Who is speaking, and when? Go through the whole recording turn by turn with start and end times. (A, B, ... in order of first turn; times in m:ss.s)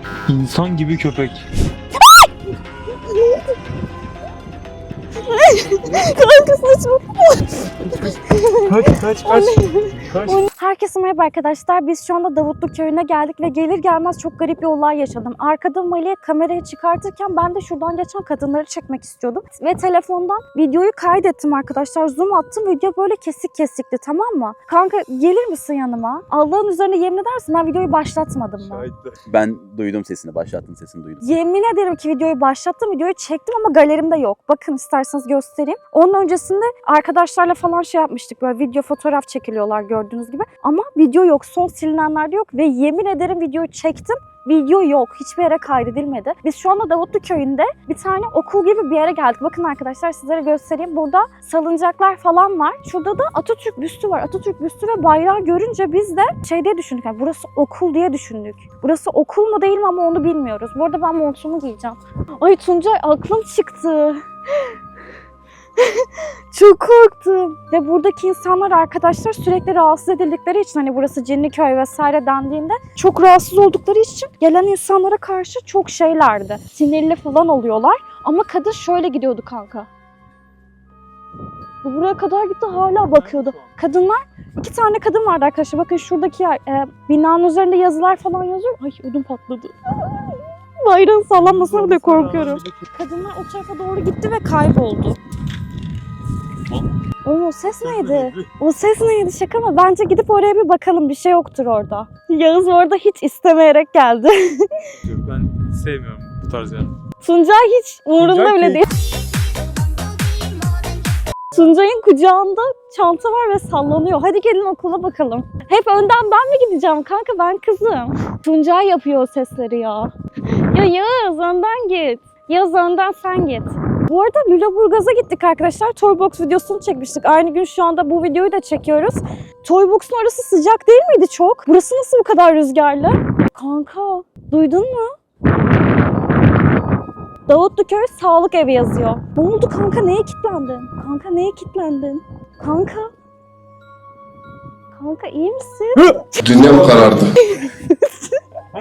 0:00.3-0:01.4 A
0:03.0-0:03.5 B
0:05.2-0:08.7 B
0:08.7-0:10.4 A
0:09.2-0:28.9 B
0:28.6-0:29.2 A
0:29.3-0:31.3 C
0:31.2-1:04.7 B
1:05.8-1:19.9 B
1:21.8-1:35.2 B
1:23.1-1:23.7 A
1:31.3-1:32.9 A
1:37.2-1:44.9 B
1:37.6-1:38.5 A
1:45.0-1:47.0 A
1:47.2-1:48.9 B
1:48.2-1:48.9 A
1:51.5-2:00.1 B
2:00.7-2:15.2 B
2:17.5-2:23.1 B
2:25.0-2:28.4 B